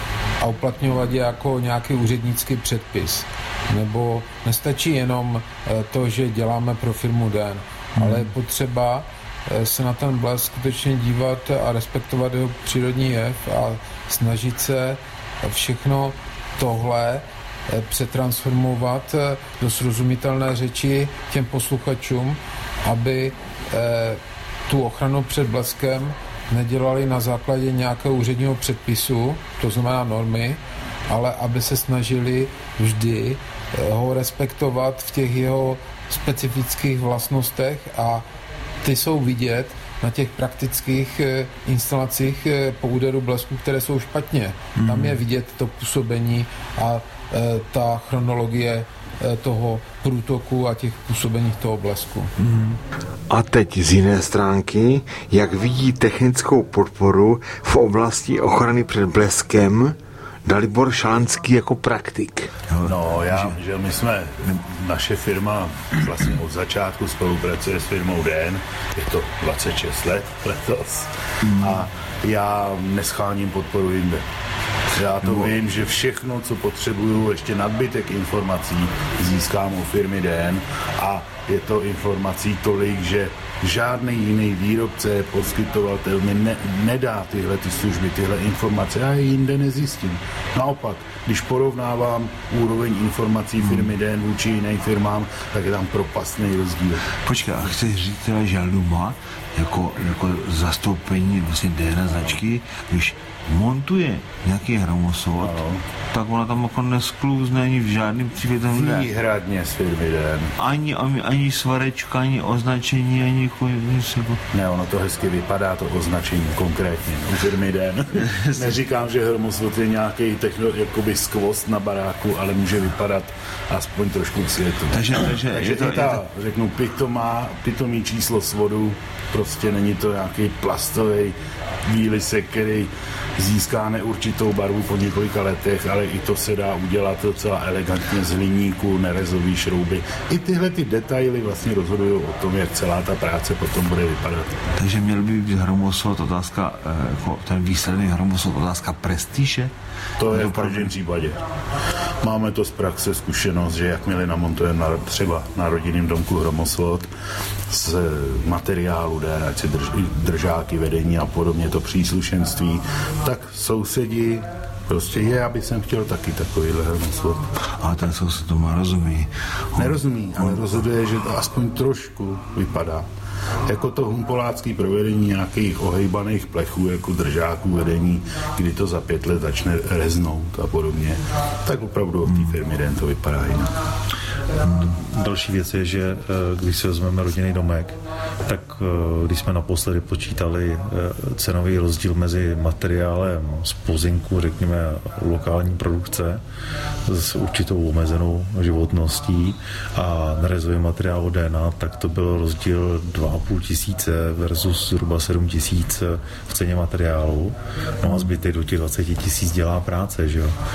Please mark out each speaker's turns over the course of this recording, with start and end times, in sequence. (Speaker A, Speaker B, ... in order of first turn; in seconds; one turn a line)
Speaker A: 0.4-38.3
Speaker B: 8.0-8.3
Speaker A: 38.8-52.3
Speaker B: 44.8-45.2
Speaker B: 52.4-52.8
Speaker C: 53.3-62.5
Speaker B: 62.7-63.5
Speaker D: 62.8-74.2
Speaker B: 71.4-71.9
Speaker D: 74.9-97.1
Speaker B: 75.2-75.5
Speaker B: 97.2-109.1
Speaker D: 105.4-105.8
Speaker D: 108.7-110.5
Speaker B: 110.6-114.4
Speaker D: 114.5-144.6
Speaker B: 118.3-118.7
Speaker B: 124.9-126.2
Speaker B: 144.8-149.7
Speaker D: 150.2-151.4
Speaker B: 150.3-150.9
Speaker D: 152.2-157.1
Speaker D: 157.7-167.5
Speaker B: 167.8-170.0
Speaker D: 169.8-173.1
Speaker D: 173.7-183.7
Speaker E: 184.8-196.4
Speaker E: 197.1-210.6